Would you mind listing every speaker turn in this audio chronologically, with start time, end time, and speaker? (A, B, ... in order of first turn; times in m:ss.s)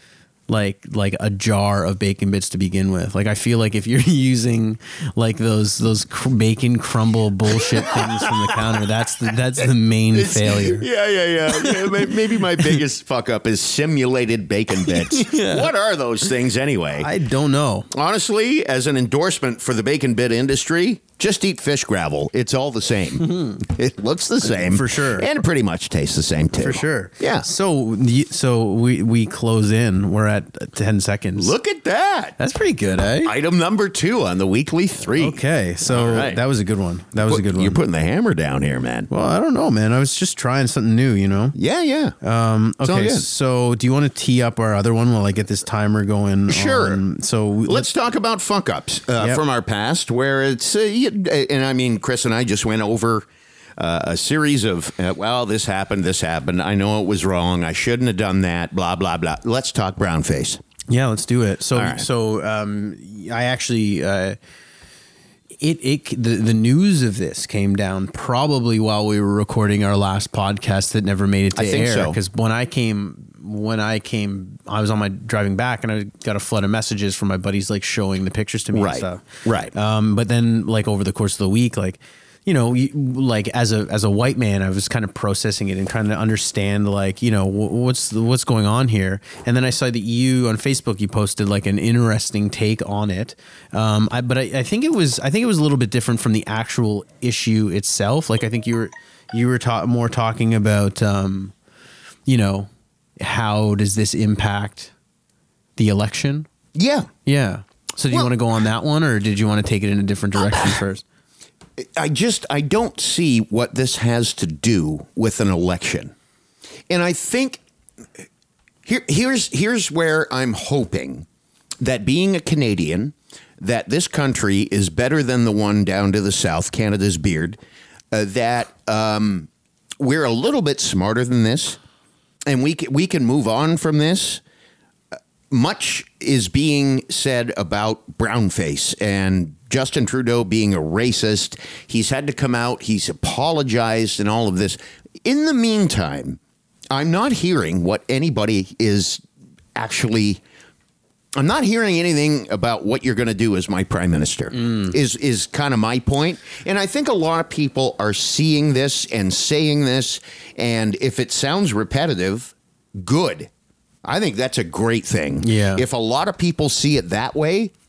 0:00.5-0:10.9 A
0:07.8-0:08.6 B
0:10.1-0:17.1 B
0:11.5-0:12.8 A
0:14.8-0:15.7 A
0:17.0-0:17.9 A
0:17.9-0:27.4 B
0:23.3-0:23.6 A
0:24.4-0:25.3 A
0:26.6-0:31.5 A
0:31.4-0:32.4 B
0:32.4-0:33.3 A
0:33.2-0:36.4 B
0:35.1-0:37.8 A
0:37.2-0:39.1 B
0:39.1-0:41.6 A
0:41.5-0:42.1 B
0:42.2-0:47.9 A
0:42.8-0:43.2 B
0:46.5-0:47.0 B
0:47.7-1:00.6 B
1:00.9-1:04.4 A
1:01.7-1:02.0 B
1:05.6-1:41.5 A
1:11.6-1:12.2 B
1:18.7-1:19.7 B
1:42.2-1:44.9 A
1:45.8-1:46.5 A
1:46.7-1:47.1 B
1:47.2-1:51.0 A
1:51.8-1:56.1 B
1:56.9-1:57.6 B
1:58.8-2:01.2 B
2:01.8-2:07.6 B
2:08.1-2:09.5 B
2:10.0-2:11.8 B
2:12.5-2:14.4 B
2:15.5-2:26.4 B
2:26.9-2:29.2 B
2:29.7-2:30.4 B
2:31.4-2:43.5 B
2:34.6-2:34.9 A
2:44.0-2:47.7 B
2:45.4-2:45.8 A